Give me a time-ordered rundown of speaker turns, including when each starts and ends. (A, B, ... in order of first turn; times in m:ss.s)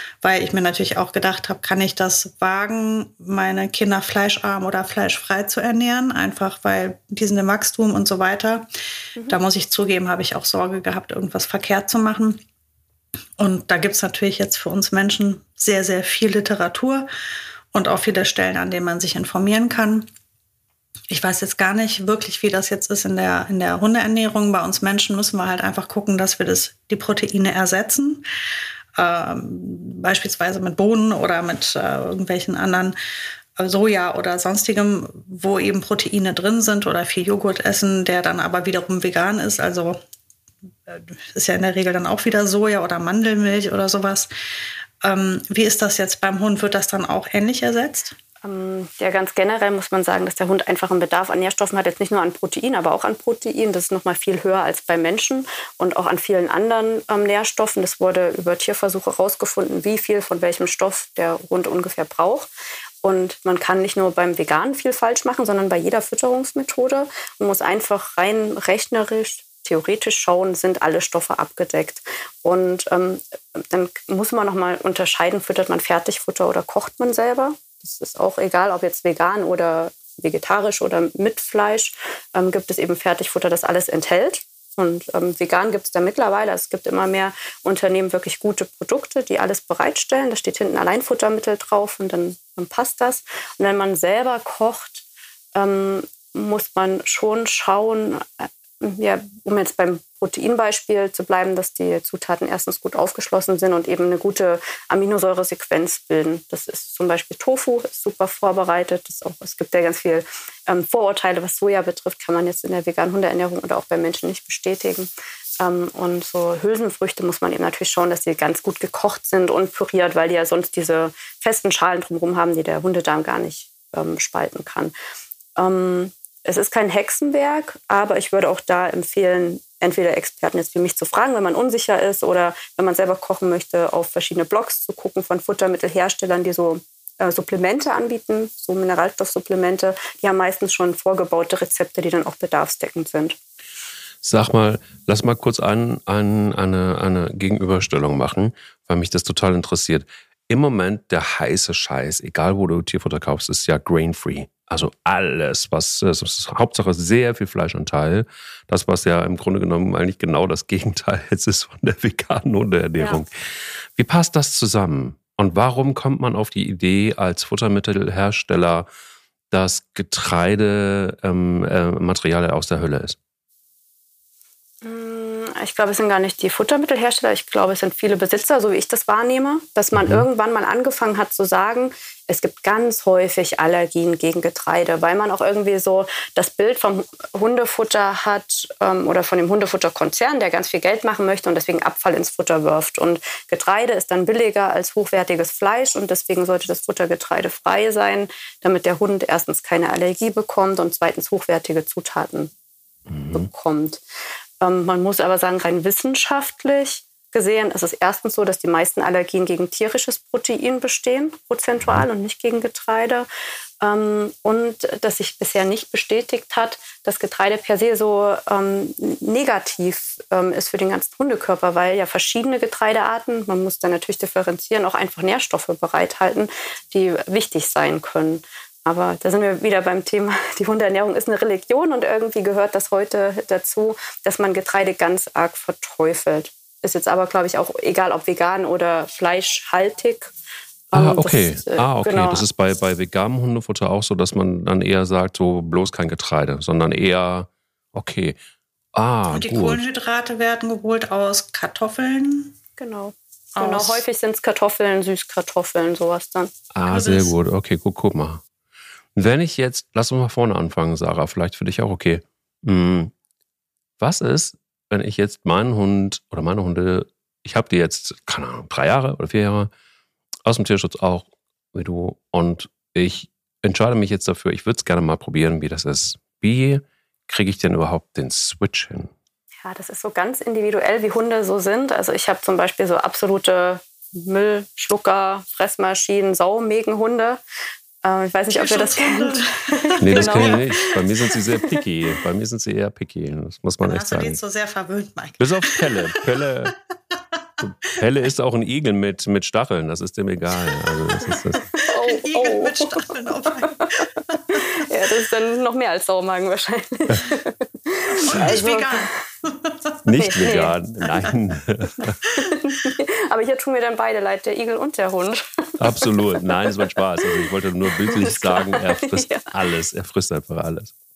0:00.2-0:08.7 A
0:09.2-0:12.4 A
0:13.4-0:17.1 A
0:17.7-0:20.1 A
0:21.1-0:28.2 A
0:29.0-0:33.0 A
0:33.6-0:40.0 A
0:40.9-0:44.3 A
0:45.0-0:48.2 A
0:48.4-1:02.5 B
1:03.0-1:35.0 B
1:35.6-1:55.1 B
1:55.6-2:04.9 B
2:05.6-2:23.4 B
2:24.2-2:43.3 C
2:44.0-2:48.9 C
2:49.5-2:53.2 C
2:54.8-3:22.5 B
3:00.0-3:00.2 C
3:23.1-3:23.5 C
3:23.3-3:24.0 B
3:24.6-3:33.3 B
3:33.8-4:00.3 B
4:00.9-4:02.4 B
4:00.9-4:08.4 C
4:09.0-4:09.8 C
4:09.3-4:12.6 A
4:12.8-4:16.5 B
4:13.6-4:14.0 A
4:16.7-4:18.4 C
4:16.9-4:17.3 A
4:19.2-4:23.1 C
4:24.0-4:29.7 C
4:30.5-4:39.1 C
4:39.6-4:47.4 B
4:48.0-4:50.9 B
4:48.5-4:50.8 A
4:50.0-4:54.4 C
4:53.8-4:56.4 A
4:55.4-4:56.8 C
4:57.6-5:01.7 C
5:00.6-5:04.8 A
5:01.8-5:03.1 B
5:03.7-5:09.1 B
5:08.2-5:09.9 A
5:10.0-5:12.2 C
5:10.2-5:10.8 B
5:12.4-5:19.5 B
5:15.8-5:20.9 C